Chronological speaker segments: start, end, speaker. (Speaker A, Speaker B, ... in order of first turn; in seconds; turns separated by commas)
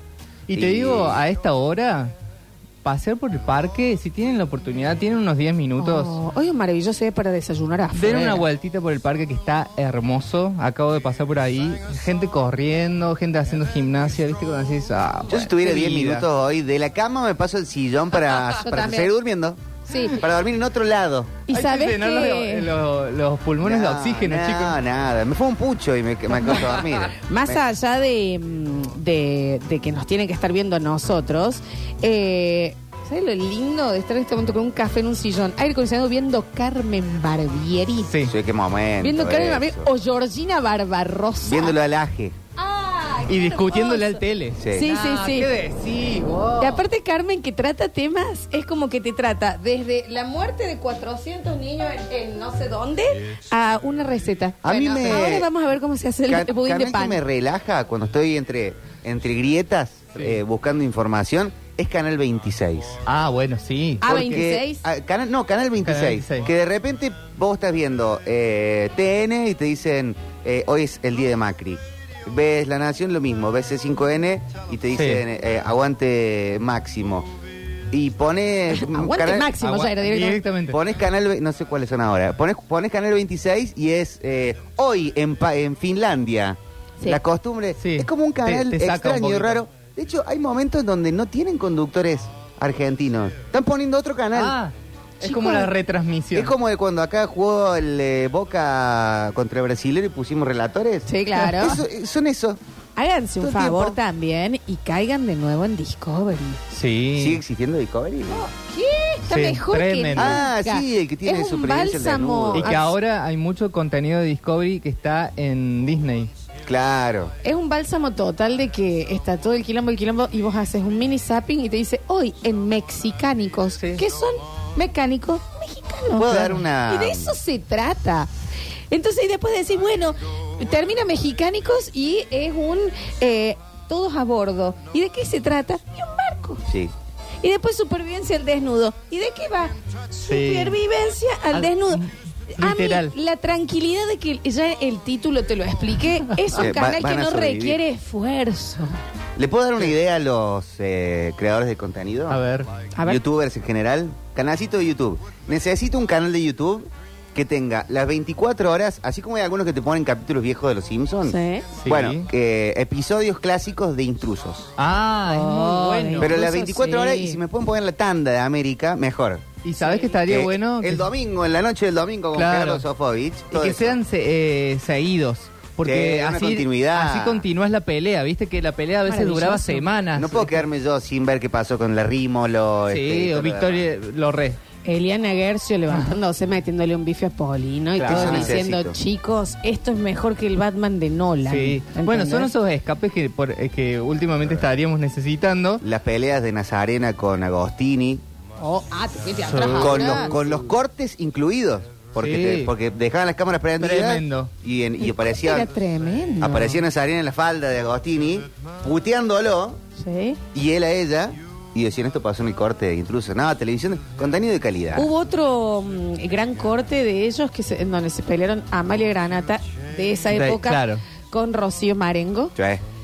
Speaker A: 0.5-2.1, Speaker B: 0.5-1.2, Speaker A: 2.8-6.2, Speaker C: 5.8-8.4, Speaker A: 7.9-16.3, Speaker B: 15.3-21.4, Speaker C: 18.4-19.1, Speaker C: 19.9-20.2, Speaker C: 21.5-22.7, Speaker A: 21.5-24.8, Speaker B: 23.6-27.6, Speaker C: 27.3-38.1, Speaker A: 38.0-38.3, Speaker B: 38.2-39.9, Speaker C: 39.0-41.8, Speaker B: 41.4-42.4, Speaker C: 42.5-45.5, Speaker A: 43.3-46.8, Speaker B: 44.6-44.9, Speaker C: 46.6-57.2, Speaker B: 54.6-55.5, Speaker B: 56.3-63.0, Speaker A: 63.0-64.0, Speaker C: 64.0-64.8, Speaker B: 64.0-77.3, Speaker A: 65.8-66.5, Speaker A: 74.9-75.2, Speaker B: 77.9-79.5, Speaker C: 78.7-80.4, Speaker A: 79.6-80.8, Speaker B: 80.7-94.6, Speaker A: 87.8-89.6, Speaker A: 94.3-96.5, Speaker C: 95.2-95.7, Speaker B: 96.3-102.6, Speaker C: 101.0-101.8, Speaker A: 101.3-101.7, Speaker C: 103.0-106.6, Speaker B: 103.4-104.0, Speaker A: 106.7-107.4, Speaker B: 107.2-108.4, Speaker C: 108.3-112.9, Speaker A: 109.3-110.4, Speaker B: 110.2-112.9, Speaker A: 112.5-116.3, Speaker B: 116.7-117.3, Speaker C: 117.4-128.3, Speaker A: 123.8-124.0, Speaker B: 126.1-127.4, Speaker C: 128.9-136.6, Speaker B: 136.7-136.9, Speaker C: 137.4-142.0, Speaker A: 140.2-140.8, Speaker A: 141.5-143.1, Speaker C: 142.5-148.9, Speaker B: 146.5-147.8, Speaker B: 149.4-152.4, Speaker A: 152.3-152.7, Speaker C: 152.9-153.2, Speaker B: 153.0-164.7, Speaker C: 161.2-161.7, Speaker A: 161.8-162.2, Speaker A: 164.8-166.4, Speaker C: 165.2-167.4, Speaker B: 166.2-169.4, Speaker A: 169.6-171.1, Speaker C: 169.8-170.2, Speaker B: 170.2-174.0, Speaker A: 172.3-172.8, Speaker A: 173.5-180.6, Speaker B: 175.8-177.4, Speaker C: 179.0-179.9, Speaker B: 180.1-183.9, Speaker A: 182.9-184.6, Speaker C: 184.8-192.5, Speaker A: 188.0-188.5, Speaker B: 188.1-188.9, Speaker A: 191.4-195.8, Speaker B: 195.8-198.2, Speaker C: 198.6-200.3, Speaker A: 199.4-200.4, Speaker B: 199.8-205.7, Speaker A: 202.2-202.7, Speaker A: 203.8-204.5, Speaker C: 205.0-206.8, Speaker B: 206.4-209.8, Speaker C: 209.9-210.4, Speaker B: 210.5-215.1, Speaker C: 214.9-222.5, Speaker A: 220.3-221.0, Speaker B: 222.6-222.8